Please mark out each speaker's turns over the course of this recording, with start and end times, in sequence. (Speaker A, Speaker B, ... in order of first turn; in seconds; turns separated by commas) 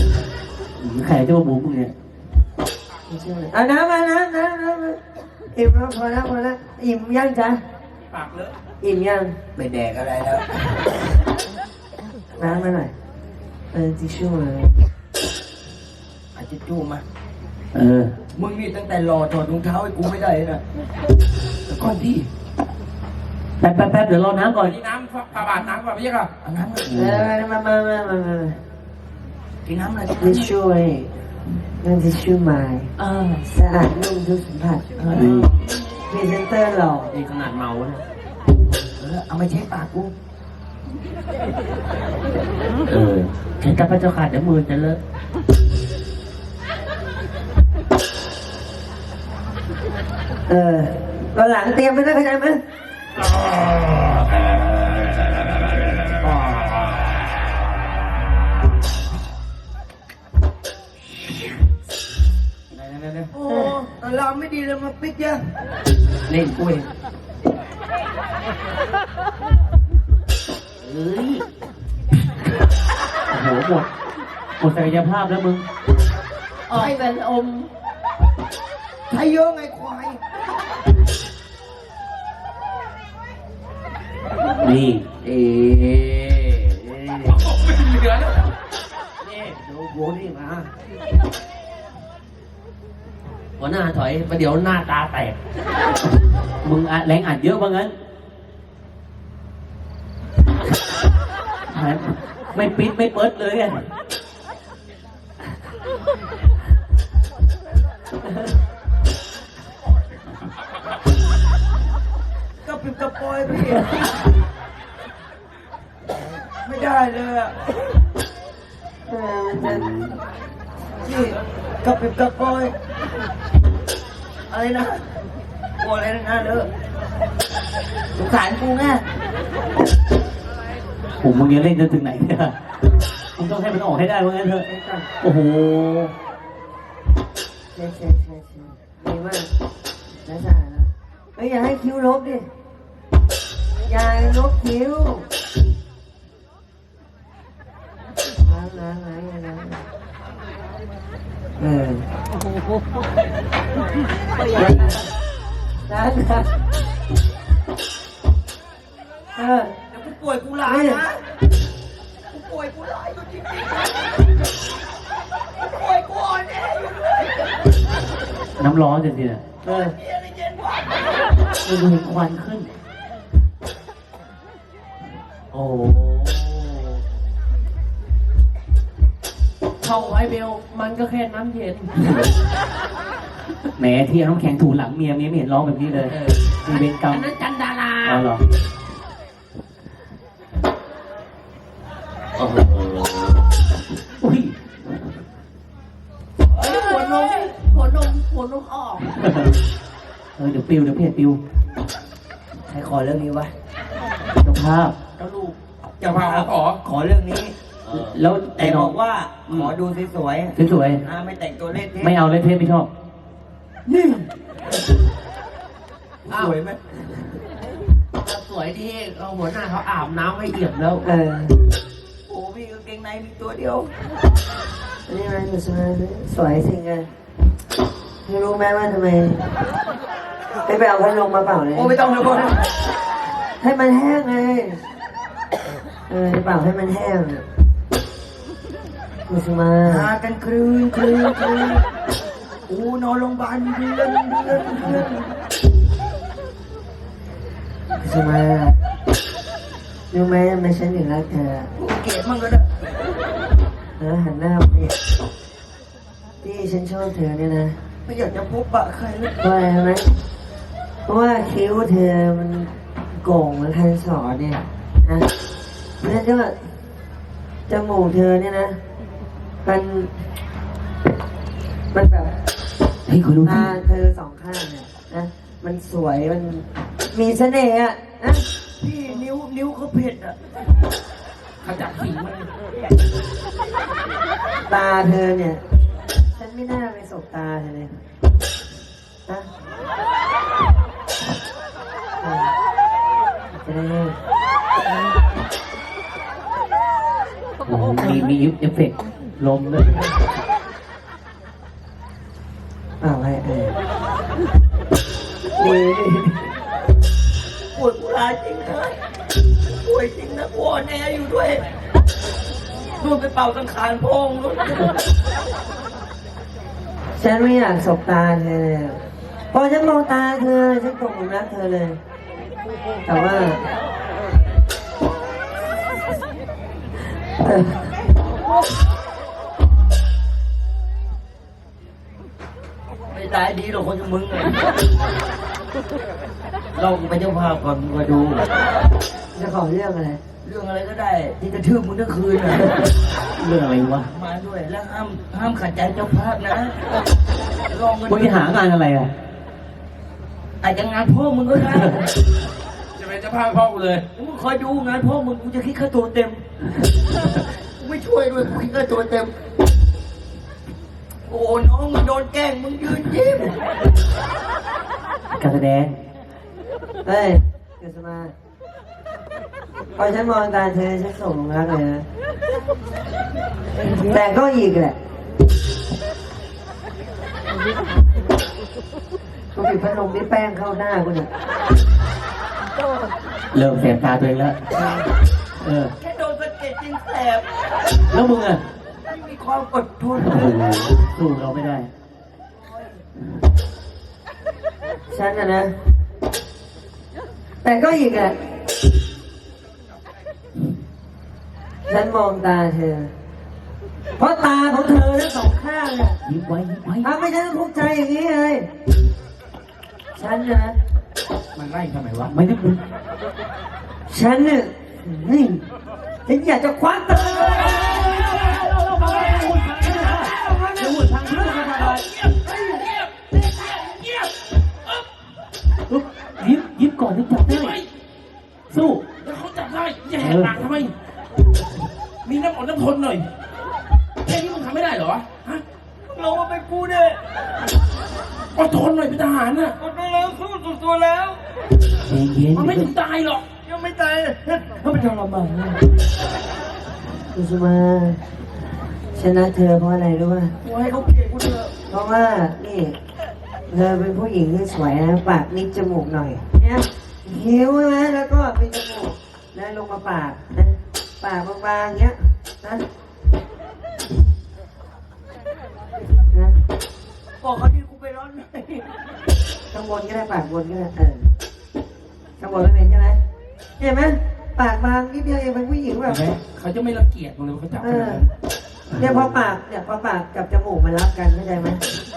Speaker A: 0.8-1.9, Speaker B: 3.1-5.0, Speaker B: 5.5-7.6, Speaker C: 8.1-8.5, Speaker B: 8.8-9.4, Speaker D: 9.6-10.8, Speaker B: 12.4-12.9, Speaker B: 13.7-14.8, Speaker D: 16.4-17.0, Speaker A: 17.7-18.1, Speaker D: 18.3-20.6, Speaker C: 21.7-22.3, Speaker A: 23.6-24.8, Speaker C: 24.5-26.3, Speaker D: 26.4-27.2, Speaker B: 26.9-28.6, Speaker A: 26.9-27.2, Speaker D: 29.7-30.5, Speaker B: 30.2-32.9, Speaker E: 33.0-33.4, Speaker B: 33.4-35.3, Speaker D: 35.0-35.5, Speaker E: 35.1-35.4, Speaker A: 35.1-35.5, Speaker B: 36.1-37.1, Speaker E: 37.1-38.0, Speaker D: 39.0-40.1, Speaker E: 42.9-45.0, Speaker B: 50.5-52.6, Speaker C: 62.7-63.3, Speaker D: 63.3-65.4, Speaker B: 63.5-63.8, Speaker E: 66.3-66.9, Speaker E: 70.8-71.4, Speaker A: 73.3-73.9, Speaker A: 74.6-75.6, Speaker E: 76.7-77.7, Speaker D: 79.1-80.2, Speaker A: 84.6-85.0, Speaker E: 85.2-87.5, Speaker C: 87.2-88.4, Speaker E: 89.2-90.7, Speaker E: 93.6-95.4, Speaker A: 96.6-97.9, Speaker A: 101.7-103.9, Speaker D: 112.6-114.1, Speaker D: 116.6-117.6, Speaker B: 119.1-119.9, Speaker A: 119.6-120.2, Speaker D: 121.0-122.8, Speaker D: 124.5-125.1, Speaker D: 125.8-126.7, Speaker D: 128.2-129.0, Speaker A: 131.2-132.6, Speaker A: 133.4-134.7, Speaker B: 134.7-135.1, Speaker A: 135.2-136.1, Speaker B: 137.7-139.5, Speaker B: 140.2-142.5, Speaker B: 143.9-145.3, Speaker B: 148.4-149.9, Speaker B: 151.6-152.1, Speaker D: 154.3-155.0, Speaker B: 154.6-154.9, Speaker B: 155.9-156.5, Speaker B: 159.3-159.7, Speaker D: 159.9-161.2, Speaker B: 160.6-161.0, Speaker D: 162.3-164.2, Speaker D: 165.6-167.7, Speaker A: 168.6-169.4, Speaker B: 169.6-169.9, Speaker D: 169.7-171.1, Speaker A: 171.6-172.7, Speaker A: 175.5-176.3, Speaker E: 175.6-176.4, Speaker E: 179.8-181.9, Speaker A: 183.8-187.3, Speaker E: 185.9-188.2, Speaker A: 188.0-188.4, Speaker E: 192.4-193.2, Speaker A: 194.2-194.6, Speaker E: 196.5-199.2, Speaker A: 199.2-199.5, Speaker A: 200.4-201.4, Speaker D: 202.7-203.5, Speaker A: 204.4-205.0, Speaker E: 205.2-205.6, Speaker D: 206.0-212.1, Speaker C: 206.0-206.8, Speaker E: 207.9-208.1, Speaker A: 207.9-208.9, Speaker A: 210.6-211.0, Speaker A: 212.0-212.9, Speaker D: 213.9-214.3, Speaker D: 216.2-216.8, Speaker E: 216.3-216.6, Speaker E: 218.2-221.1, Speaker B: 221.0-221.6, Speaker D: 222.3-223.9, Speaker B: 225.1-227.1, Speaker B: 228.3-229.5, Speaker B: 230.7-232.0, Speaker D: 231.7-232.7, Speaker B: 233.6-234.8, Speaker B: 236.1-237.4, Speaker B: 239.3-240.1, Speaker D: 239.9-241.8, Speaker D: 242.7-245.3, Speaker B: 247.9-248.8, Speaker B: 250.1-251.7, Speaker D: 251.8-252.7, Speaker B: 254.0-254.9, Speaker B: 256.4-257.8, Speaker D: 258.1-259.3, Speaker B: 259.4-260.2, Speaker B: 261.1-265.3, Speaker B: 266.0-266.7, Speaker B: 267.7-268.8, Speaker B: 269.6-270.2, Speaker B: 271.9-272.3, Speaker A: 273.1-273.7, Speaker B: 273.4-278.4, Speaker D: 278.8-280.4, Speaker C: 281.6-282.5, Speaker B: 284.7-285.6, Speaker B: 286.4-287.9, Speaker B: 292.2-292.5, Speaker B: 293.6-294.2, Speaker A: 297.7-300.0, Speaker B: 303.0-303.8, Speaker B: 305.6-306.5, Speaker D: 307.7-309.0, Speaker D: 309.7-311.6, Speaker D: 313.0-314.9, Speaker B: 317.2-322.0, Speaker B: 323.1-323.6, Speaker B: 327.4-327.9, Speaker D: 333.1-334.6, Speaker D: 336.8-338.5, Speaker B: 339.4-340.2, Speaker D: 340.4-342.7, Speaker A: 343.4-344.1, Speaker D: 344.1-346.8, Speaker D: 347.7-348.5, Speaker A: 348.1-349.1, Speaker D: 350.6-352.1, Speaker C: 353.0-354.0, Speaker D: 354.1-356.4, Speaker D: 357.8-359.3, Speaker D: 361.3-363.6, Speaker A: 365.4-366.0, Speaker B: 367.1-368.3, Speaker B: 369.9-372.1, Speaker B: 373.9-375.0, Speaker B: 379.6-381.3, Speaker A: 383.5-384.6, Speaker A: 385.6-385.9, Speaker D: 386.0-387.5, Speaker A: 388.1-388.6, Speaker D: 389.0-390.6, Speaker A: 390.2-391.9, Speaker D: 392.6-393.0, Speaker B: 395.1-395.7, Speaker B: 397.6-398.5, Speaker B: 401.9-403.1, Speaker B: 404.2-406.2, Speaker A: 406.2-407.1, Speaker B: 407.0-408.7, Speaker B: 410.1-410.8, Speaker C: 411.6-412.3, Speaker A: 412.3-412.8, Speaker B: 414.1-415.6, Speaker B: 416.3-418.1, Speaker A: 417.3-422.0, Speaker C: 417.8-418.5, Speaker C: 419.1-424.3, Speaker B: 420.1-421.1, Speaker A: 425.9-427.8, Speaker C: 427.4-427.9, Speaker A: 428.7-429.0, Speaker C: 429.2-430.9, Speaker A: 430.2-430.6, Speaker C: 432.2-433.3, Speaker C: 434.2-435.6, Speaker D: 436.1-437.2, Speaker C: 438.6-439.8, Speaker D: 439.8-441.4, Speaker A: 442.1-442.9, Speaker C: 442.6-443.4, Speaker D: 443.6-445.8, Speaker B: 447.3-448.2, Speaker B: 449.1-450.5, Speaker D: 450.6-451.7, Speaker B: 451.9-453.0, Speaker B: 453.7-462.9, Speaker B: 466.3-466.6, Speaker D: 467.4-468.9, Speaker B: 469.7-471.3, Speaker B: 472.4-473.2, Speaker B: 473.8-476.3, Speaker C: 476.1-478.3, Speaker B: 477.8-478.2, Speaker A: 479.0-479.4, Speaker B: 479.0-481.8